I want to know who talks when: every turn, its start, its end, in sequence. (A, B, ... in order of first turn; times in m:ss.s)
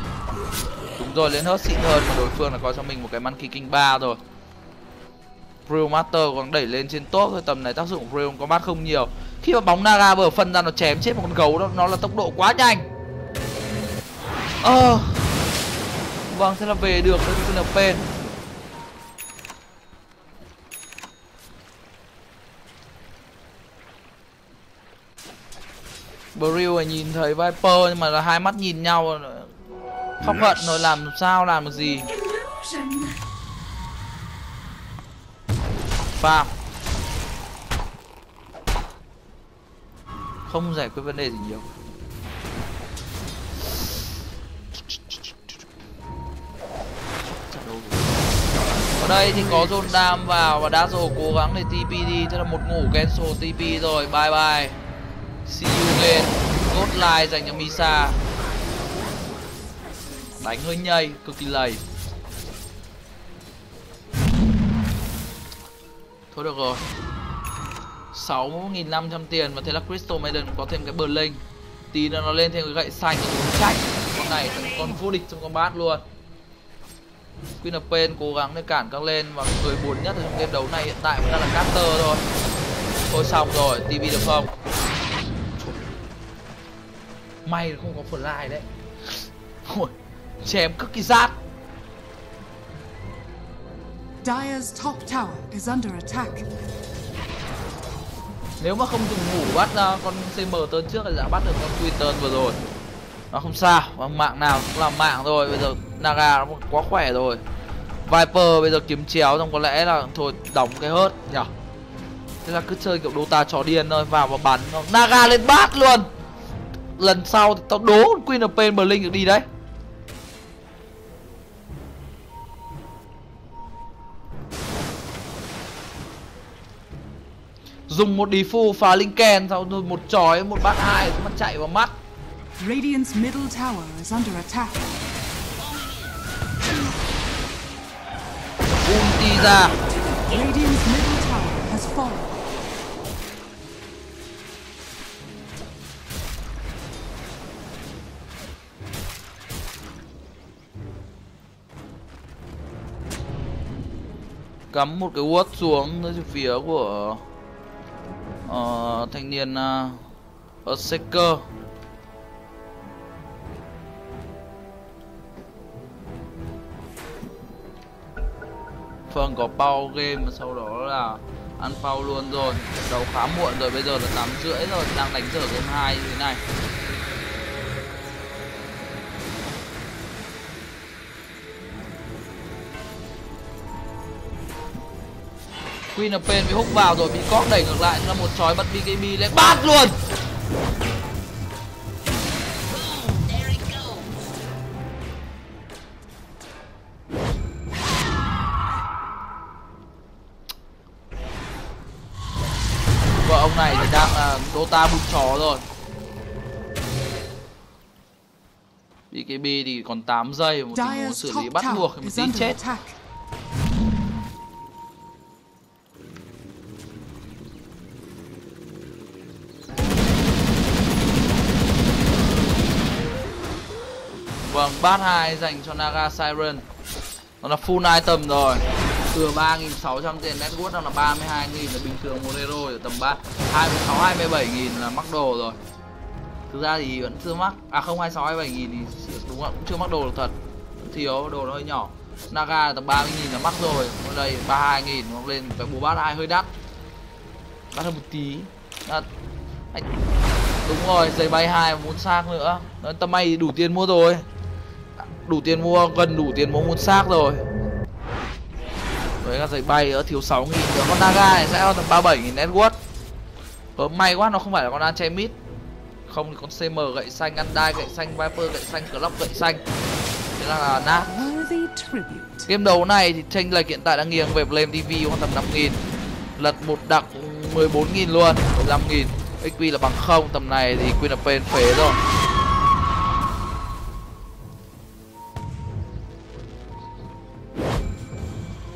0:01.0-0:04.2 A
0:05.7-0:12.9 A
0:14.6-0:15.3 A
0:16.3-0:18.0 A
0:26.3-0:29.5 A
0:30.2-0:32.1 A
0:36.1-0:36.5 A
0:40.5-0:41.7 A
0:44.9-0:45.6 A
0:47.2-0:48.2 A
0:49.0-0:54.8 A
0:55.4-0:58.2 A
1:00.4-1:01.8 A
1:06.3-1:06.8 A
1:08.1-1:16.0 A
1:17.6-1:22.2 A
1:23.1-1:24.5 A
1:27.4-1:31.4 A
1:34.2-1:36.4 B
1:38.6-1:42.6 A
1:43.3-1:47.4 A
1:48.0-1:51.5 A
1:52.4-1:56.1 A
1:57.0-1:59.4 A
2:07.9-2:12.0 A
2:12.6-2:14.9 B
2:18.8-2:19.7 A
2:20.2-2:22.3 B
2:34.7-2:37.2 A
2:38.4-2:40.0 A
2:40.6-2:41.4 A
2:49.1-2:56.4 A
3:05.9-3:10.0 A
3:23.2-3:25.6 A
3:29.1-3:32.6 A
3:30.7-3:32.9 B
3:44.4-3:46.6 A
3:47.4-3:55.6 A
3:56.5-4:06.5 A
4:07.7-4:09.0 A
4:10.6-4:14.2 A
4:15.0-4:17.4 A
4:19.2-4:22.8 A
4:23.8-4:25.4 A
4:26.1-4:29.6 A
4:30.4-4:31.1 A
4:30.9-4:32.5 B
4:32.5-4:35.8 A
4:36.4-4:42.0 A